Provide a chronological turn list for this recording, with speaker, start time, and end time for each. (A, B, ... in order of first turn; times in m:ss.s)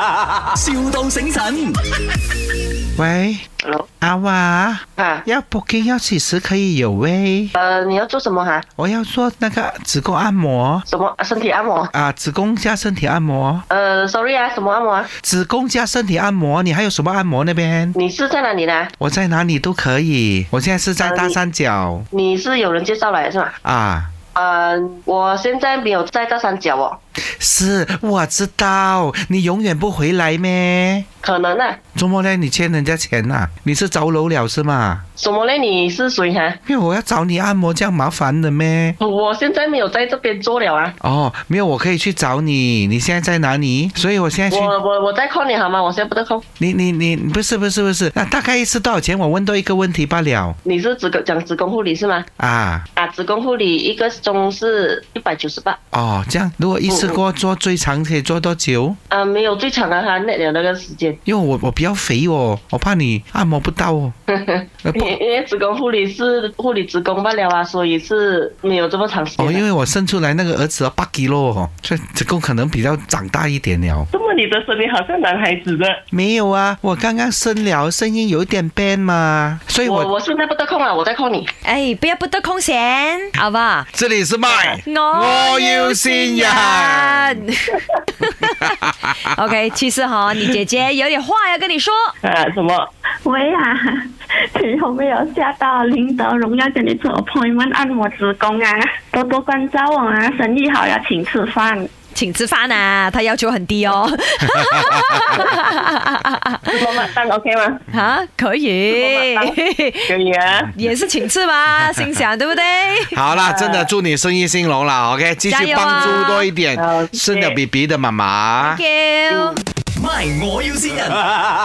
0:00.5-0:01.8 A
0:03.0-0:03.4 B
0:04.0-0:07.5 B
0:05.0-0:05.2 C
0:07.6-0:08.6 C
0:08.8-0:10.8 B
0:10.8-0:11.9 C
0:11.9-0:13.6 B
0:13.7-0:15.1 C
0:15.2-0:17.9 B
0:17.9-0:18.9 C
0:19.0-0:22.1 B
0:21.0-0:21.4 C
0:22.1-0:23.5 C
0:23.6-0:24.1 B
0:24.3-0:27.0 C
0:27.4-0:31.0 B
0:31.2-0:31.8 C
0:31.9-0:35.0 B
0:35.2-0:36.6 C
0:36.6-0:39.0 B
0:39.0-0:40.9 C
0:41.0-0:44.7 B
0:44.5-0:46.4 C
0:46.6-0:50.6 B
0:50.6-0:52.3 C
0:52.4-0:52.8 B
0:52.9-0:55.8 C
0:55.9-0:59.0 B
0:56.9-0:57.2 C
0:59.1-1:01.2 C
1:01.2-1:04.2 B
1:04.3-1:09.6 C
1:04.8-1:05.1 B
1:09.4-1:14.1 B
1:14.1-1:16.0 C
1:16.1-1:20.1 B
1:19.8-1:21.5 C
1:21.6-1:23.9 D
1:23.9-1:27.4 B
1:24.5-1:24.8 C
1:24.8-1:32.1 D
1:28.6-1:28.9 B
1:32.2-1:32.9 C
1:33.2-1:41.9 E
1:42.1-1:46.8 D
1:44.4-1:45.2 B
1:46.7-1:47.8 C
1:47.9-1:50.1 D
1:48.9-1:49.6 C
1:50.1-1:50.7 C
1:50.7-1:53.2 D
1:53.1-1:58.8 B
1:53.3-1:53.9 C
1:55.5-1:56.5 D
1:56.8-1:57.6 C
1:58.6-1:59.6 D
1:59.3-1:59.6 C
1:59.9-2:01.2 A